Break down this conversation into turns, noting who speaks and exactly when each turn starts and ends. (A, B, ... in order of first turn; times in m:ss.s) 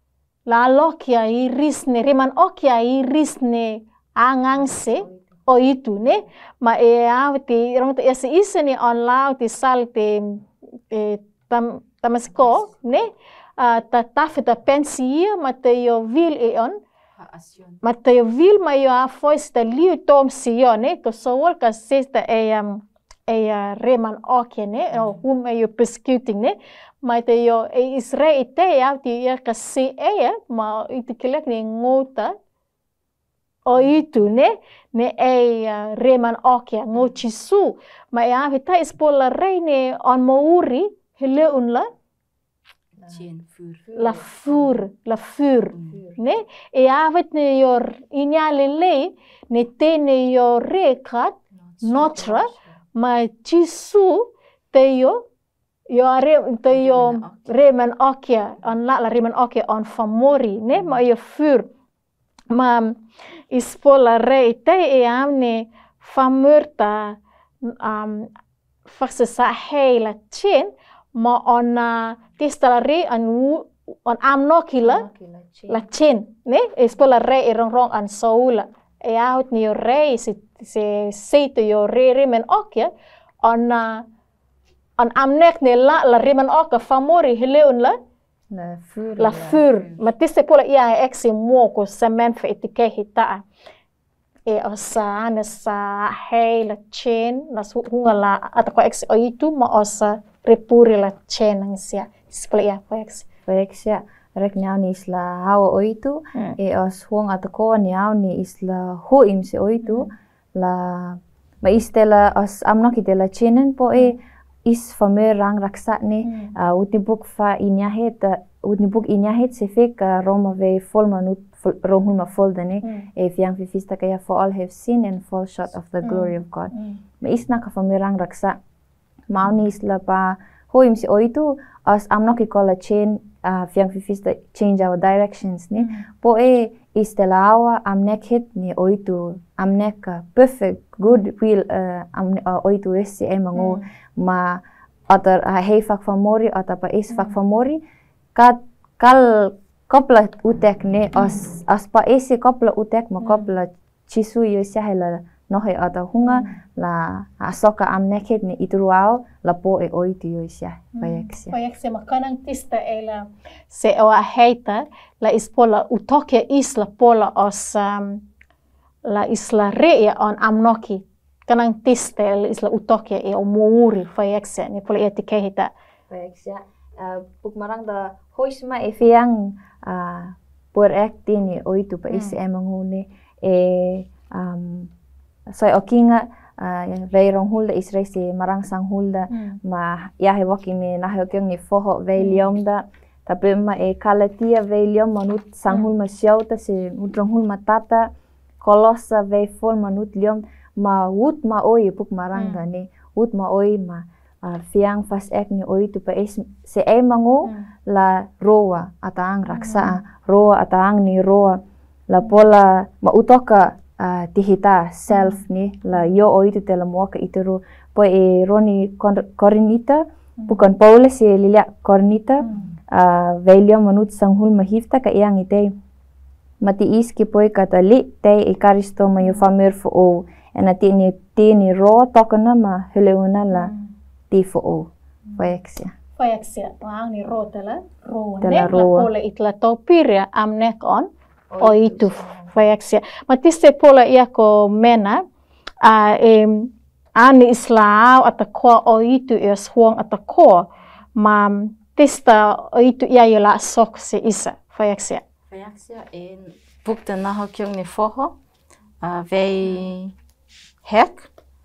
0:00.5-0:16.8 A
0:04.5-0:05.5 B
0:17.2-0:17.8 C
0:17.8-0:32.4 A
0:25.0-0:25.2 C
0:33.7-0:41.9 A
0:43.1-0:43.9 C
0:43.9-0:44.7 B
0:44.0-0:55.2 A
0:45.8-0:46.2 B
0:51.6-0:52.3 C
0:52.3-0:52.6 B
0:55.9-1:01.7 A
0:56.7-0:57.6 C
1:02.5-1:08.3 A
1:08.9-1:15.1 A
1:14.8-1:15.9 B
1:15.7-1:24.1 A
1:25.0-1:28.0 A
1:28.5-1:29.7 B
1:29.2-1:33.4 A
1:34.5-1:43.3 A
1:43.5-2:08.6 B
1:49.8-1:50.1 A
1:56.2-1:56.5 A
2:02.8-2:03.1 A
2:06.0-2:07.0 A
2:09.3-2:27.8 B
2:15.8-2:16.1 A
2:23.6-2:23.8 A
2:27.1-2:27.4 A
2:28.4-2:41.6 B
2:33.2-2:33.5 A
2:36.2-2:36.6 A
2:41.0-2:48.2 A
2:49.1-2:55.7 A
2:56.1-3:04.9 B
3:02.1-3:02.4 A
3:05.5-3:18.1 B
3:09.3-3:09.6 A
3:12.2-3:12.5 A
3:18.6-3:45.7 B
3:22.4-3:22.6 A
3:29.5-3:30.0 A
3:35.1-3:35.4 A
3:40.4-3:40.6 A
3:42.4-3:42.7 A
3:46.6-3:53.7 B
3:49.2-3:49.4 A
3:53.5-3:53.9 A
3:54.3-3:55.9 B
3:56.2-4:01.1 A
3:58.4-3:59.1 B
4:01.5-4:02.6 B
4:01.6-4:05.2 A
4:05.8-4:15.2 A
4:15.5-4:18.3 C
4:19.0-4:20.1 C
4:20.8-4:21.3 C